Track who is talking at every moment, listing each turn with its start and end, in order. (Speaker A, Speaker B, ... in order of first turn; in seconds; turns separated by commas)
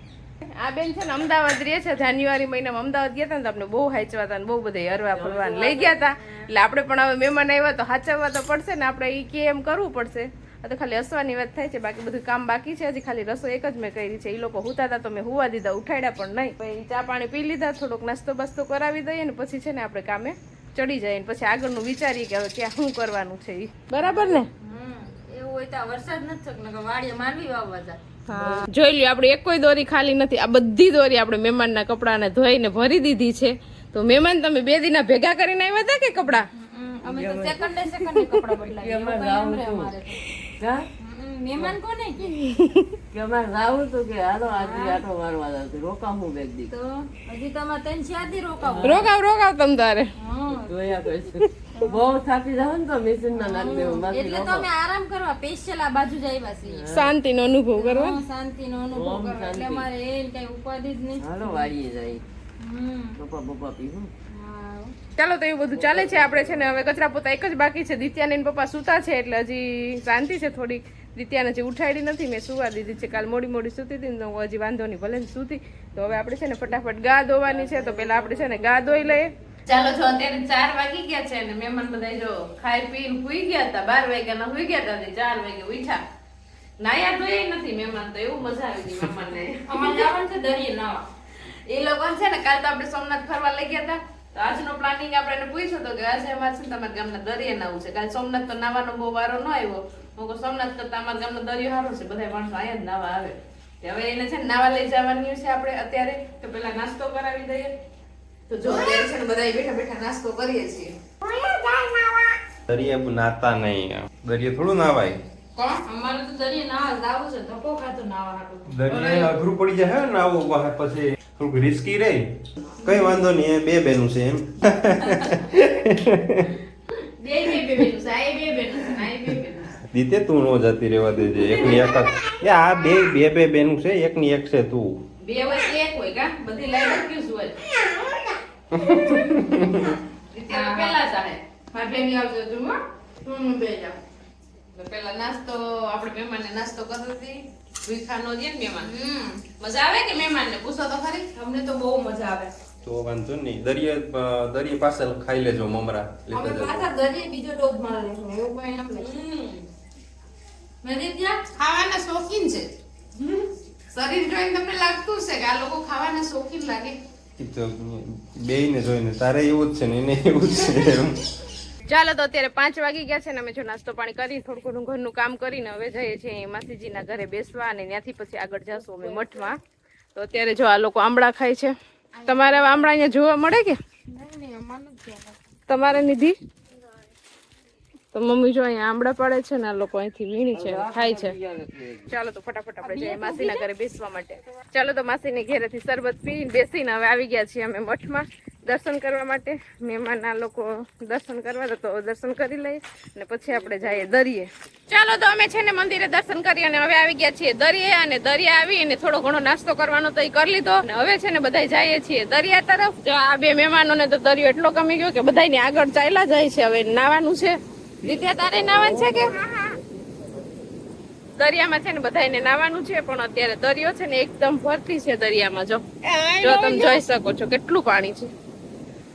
Speaker A: 0.6-24.5, Speaker B: 5.1-6.0, Speaker C: 24.0-28.0, Speaker A: 28.3-36.5, Speaker B: 28.3-28.6, Speaker C: 36.5-40.2, Speaker B: 37.0-37.8, Speaker A: 38.0-38.4, Speaker B: 38.8-39.9, Speaker B: 40.6-40.9, Speaker C: 41.0-42.4, Speaker A: 42.4-42.9, Speaker B: 43.1-46.7, Speaker C: 44.5-45.0, Speaker C: 46.7-49.1, Speaker B: 48.6-49.0, Speaker A: 48.8-50.1, Speaker C: 50.2-50.9, Speaker B: 50.5-54.7, Speaker C: 53.4-56.9, Speaker B: 56.7-57.1, Speaker A: 56.9-58.2, Speaker C: 57.8-61.7, Speaker B: 58.9-59.9, Speaker B: 61.2-62.2, Speaker C: 62.6-63.2, Speaker B: 63.2-64.1, Speaker C: 64.3-65.0, Speaker A: 65.2-86.0, Speaker B: 65.8-66.6, Speaker A: 86.8-90.1, Speaker C: 89.7-91.0, Speaker A: 91.7-107.7, Speaker A: 108.5-111.0, Speaker C: 111.2-112.3, Speaker D: 112.7-115.2, Speaker A: 115.6-115.8, Speaker C: 115.8-119.2, Speaker D: 118.7-126.5, Speaker A: 127.2-129.8, Speaker D: 129.9-135.0, Speaker A: 135.2-137.6, Speaker C: 137.9-138.3, Speaker D: 138.7-140.0, Speaker A: 140.3-142.8, Speaker C: 140.5-141.0, Speaker C: 143.2-144.0, Speaker A: 144.7-148.9, Speaker C: 148.8-149.4, Speaker A: 149.5-151.4, Speaker C: 151.5-152.5, Speaker D: 152.8-156.9, Speaker C: 156.3-159.7, Speaker C: 160.8-161.5, Speaker A: 161.5-162.7, Speaker A: 163.9-166.9, Speaker D: 167.4-171.2, Speaker A: 171.9-179.6, Speaker A: 180.2-181.7, Speaker C: 182.2-182.8, Speaker A: 182.2-183.8, Speaker C: 184.1-185.4, Speaker A: 185.7-186.3, Speaker A: 188.1-191.4, Speaker B: 190.5-192.1, Speaker A: 192.1-219.4, Speaker C: 192.8-193.6, Speaker A: 221.4-225.8, Speaker C: 226.1-227.0, Speaker A: 226.4-228.3